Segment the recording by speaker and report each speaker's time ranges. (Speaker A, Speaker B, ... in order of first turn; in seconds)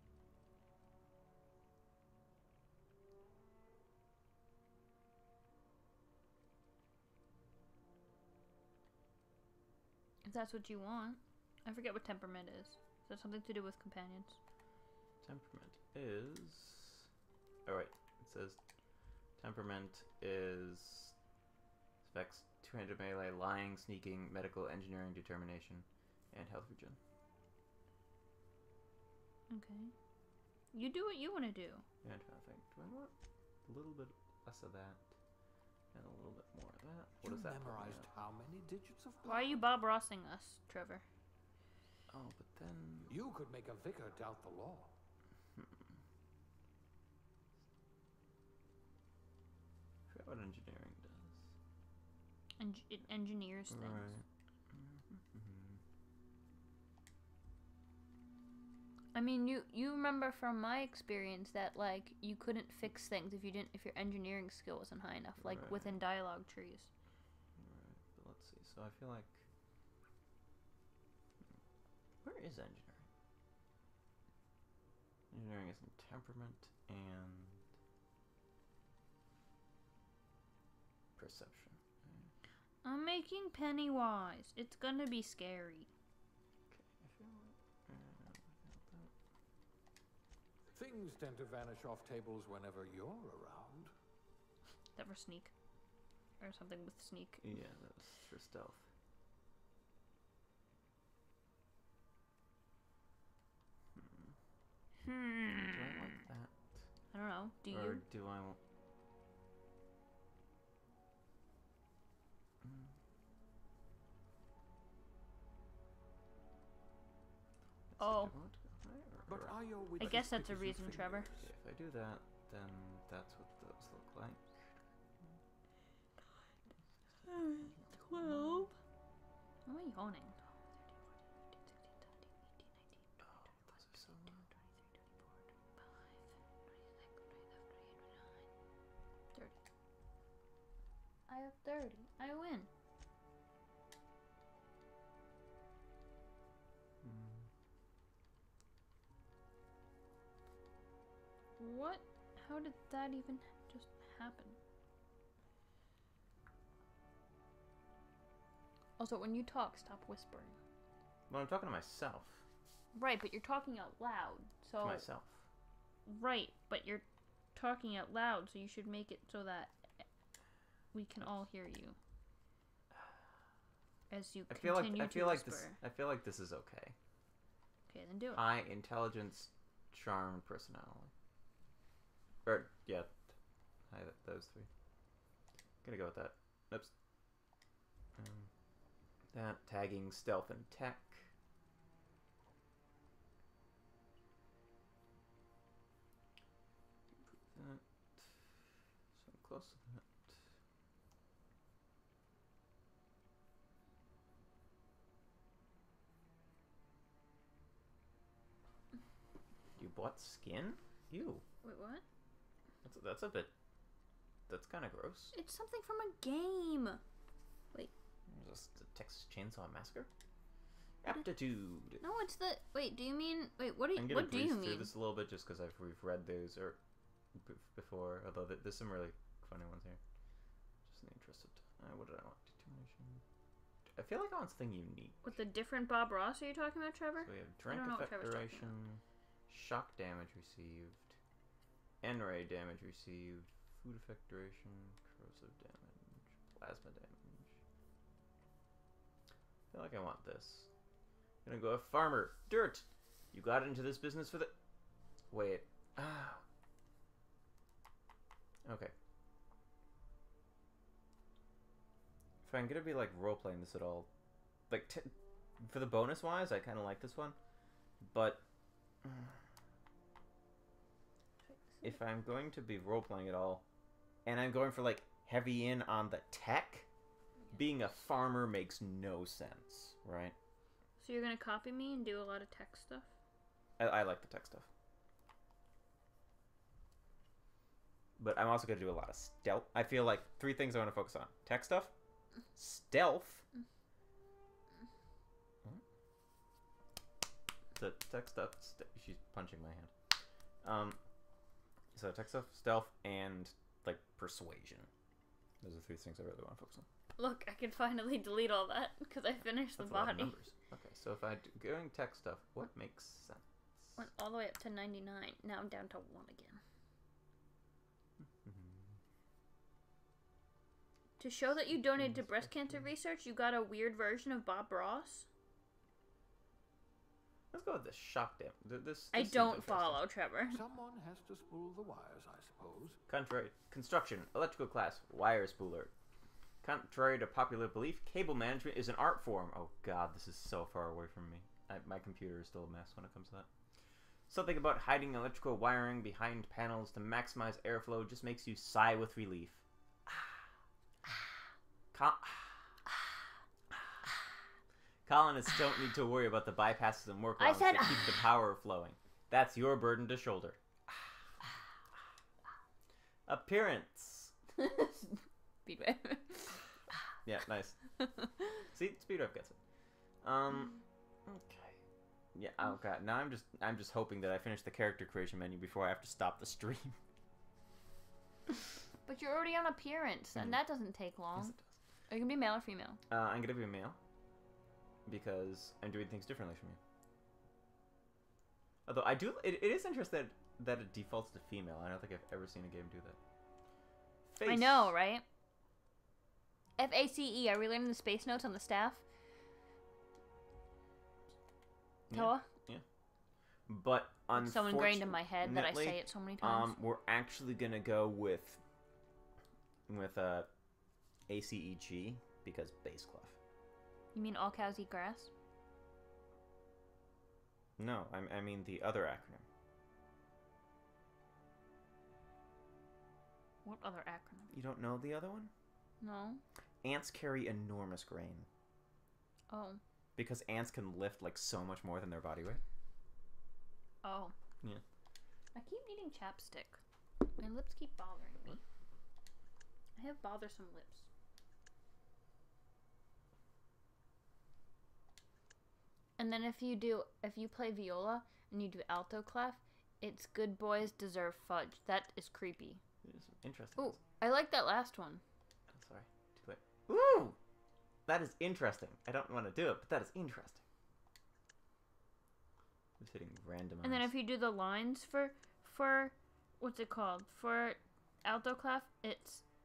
Speaker A: 10.2-14.4, 29.5-29.9, 30.7-31.8, 39.2-41.0, 52.6-54.1, 59.1-66.9, 82.8-85.9, 95.0-95.5, 96.4-97.5, 105.0-106.2, 107.1-108.0, 118.0-118.3, 120.0-121.3, 127.2-128.8, 129.6-134.9, 135.8-138.3, 139.3-139.6, 141.3-142.7, 151.6-154.6, 159.0-160.6, 162.9-165.1, 166.1-170.0, 170.9-172.0, 174.1-175.8, 177.9-178.4, 211.6-212.0, 215.3-217.0, 222.0-224.9, 235.2-238.7, 271.4-272.0, 281.0-283.1, 307.2-310.4, 313.9-316.6, 321.2-325.3, 329.1-330.6, 357.4-358.3, 364.6-365.1, 365.6-366.6, 368.0-368.5, 379.1-381.5, 382.1-383.0, 394.4-395.2, 396.8-399.0, 402.1-402.5, 404.3-406.8, 414.1-415.3, 423.6-424.5, 426.0-426.4, 429.5-429.8, 434.0-434.3, 435.5-436.8, 437.4-438.6, 439.9-441.1, 446.2-452.8, 453.8-455.2, 463.8-469.4
Speaker B: 15.2-17.1, 17.6-18.6, 19.4-21.1, 22.0-27.0, 32.0-33.1, 33.6-35.0, 35.9-38.1, 42.1-43.1, 45.5-46.0, 50.1-51.5, 53.7-55.8, 65.4-66.0, 67.5-69.5, 72.2-73.1, 75.3-77.7, 81.2-82.3, 86.7-89.1, 97.4-98.9, 103.9-104.3, 105.5-106.9, 107.7-108.6, 112.6-113.0, 117.9-120.2, 121.4-124.6, 127.5-128.7, 133.2-134.5, 147.0-147.5, 161.3-162.4, 164.8-165.5, 172.9-173.2, 174.5-176.9, 178.3-181.1, 182.4-183.3, 183.9-184.7, 185.8-186.9, 188.2-188.5, 189.3-191.3, 197.2-198.6, 199.1-200.5, 209.8-211.4, 212.8-213.5, 214.5-215.3, 218.3-220.1, 221.0-222.0, 223.9-226.8, 227.3-230.0, 230.8-233.2, 233.9-235.3, 237.2-241.2, 242.0-247.6, 249.7-250.7, 251.4-254.5, 255.3-256.4, 258.6-258.9, 262.4-264.1, 264.7-267.4, 268.0-268.4, 269.0-269.4, 271.8-273.6, 274.2-276.9, 277.5-280.4, 283.8-284.7, 288.2-291.9, 292.5-293.4, 297.7-299.9, 300.6-301.0, 301.9-304.9, 305.6-306.9, 309.8-313.9, 318.2-319.0, 321.5-322.9, 327.5-330.0, 333.1-335.9, 336.6-343.5, 344.3-350.3, 351.9-352.8, 355.1-361.1, 363.3-364.4, 367.2-367.8, 368.7-369.6, 370.2-370.7, 371.2-371.8, 372.3-377.0, 380.3-380.6, 381.3-381.8, 383.1-384.0, 385.1-386.8, 388.9-393.2, 394.3-394.9, 402.1-402.8, 403.7-408.6, 409.9-410.5, 411.3-413.4, 417.8-419.4, 424.5-425.5, 426.8-428.5, 430.1-432.6, 453.0-454.0, 455.7-457.4, 458.1-460.6, 463.0-464.1
Speaker C: 37.2-39.6, 43.0-44.9, 90.7-93.9, 119.3-121.5, 330.5-333.0